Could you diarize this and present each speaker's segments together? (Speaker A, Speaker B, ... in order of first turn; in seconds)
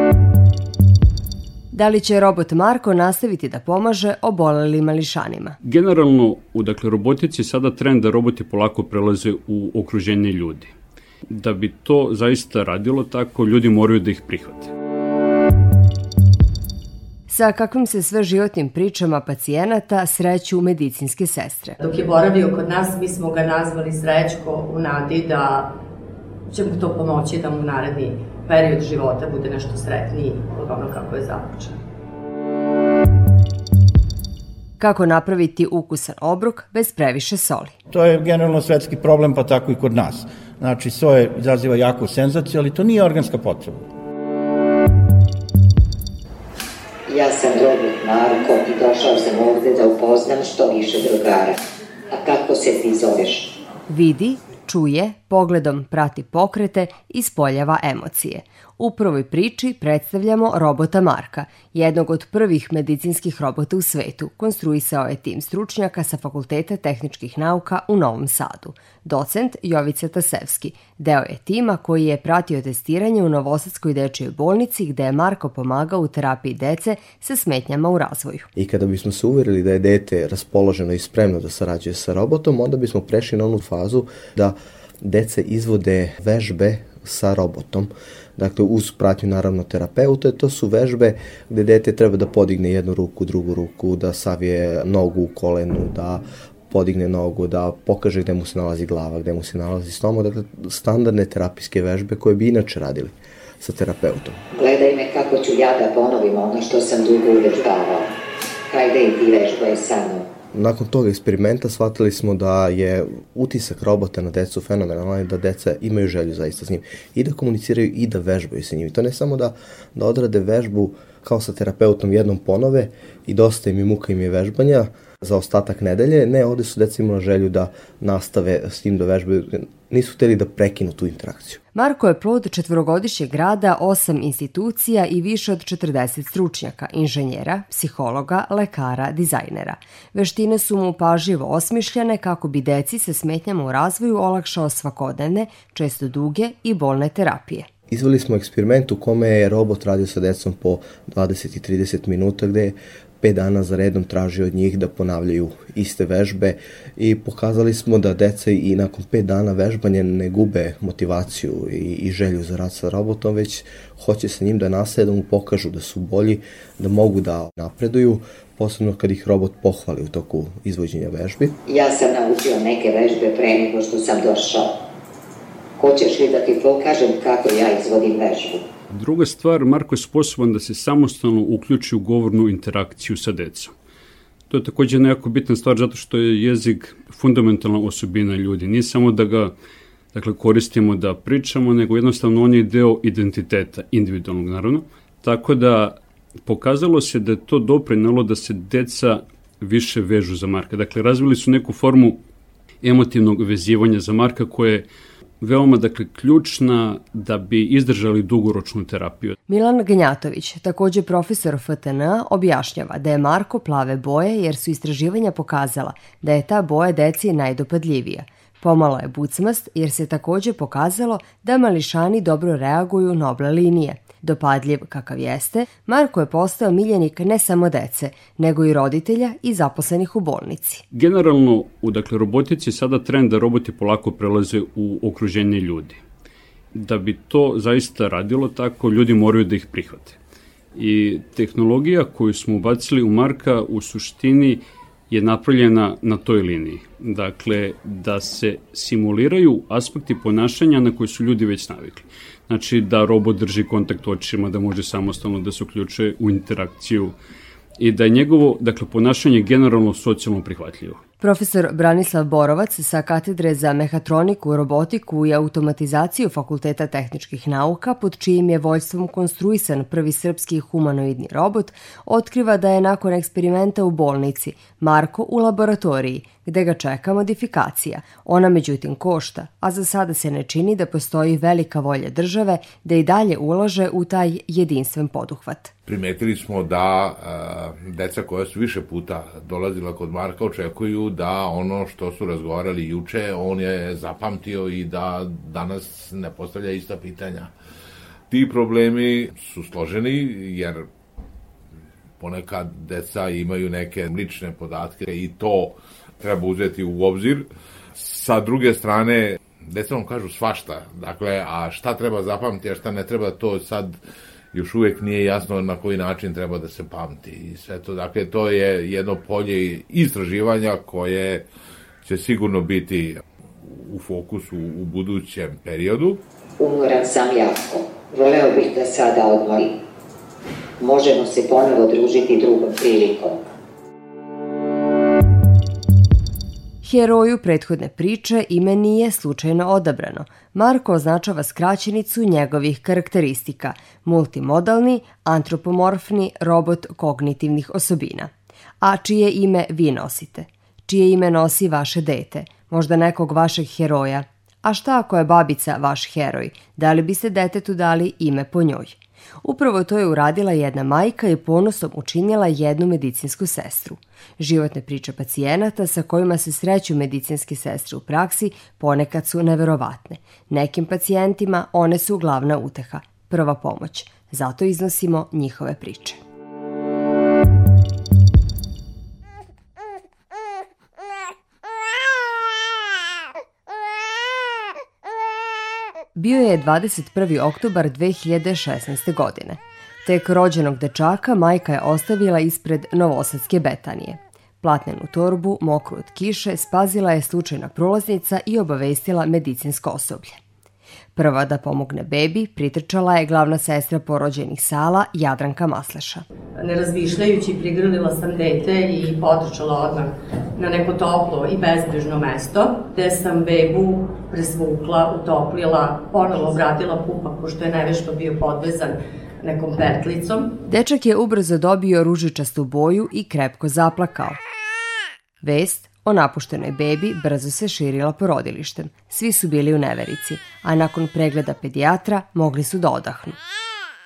Speaker A: 1.7-5.6, 17.3-21.8, 34.8-37.7, 53.9-78.5, 131.7-147.7, 209.5-230.8, 261.2-285.7, 336.8-348.3, 348.8-376.2, 386.1-400.4, 401.1-406.2, 420.7-424.4, 425.4-433.4
Speaker B: 5.6-10.7, 11.3-14.7, 178.9-183.7, 184.5-189.5, 190.1-202.2, 202.8-204.8, 205.4-209.3, 230.9-236.0, 236.7-240.2, 240.7-257.1, 257.8-261.0
Speaker C: 21.8-25.7, 26.5-31.8, 406.6-420.5
Speaker D: 37.9-43.9
Speaker E: 47.1-51.6, 52.1-53.5, 104.5-108.1, 108.7-110.3, 171.7-174.7, 175.8-178.6, 326.6-329.7, 330.8-333.4
Speaker F: 78.5-104.4, 110.5-131.6, 147.9-171.6
Speaker G: 285.9-297.5, 298.3-300.9, 302.2-313.9, 314.5-321.4, 322.0-323.2, 323.8-326.2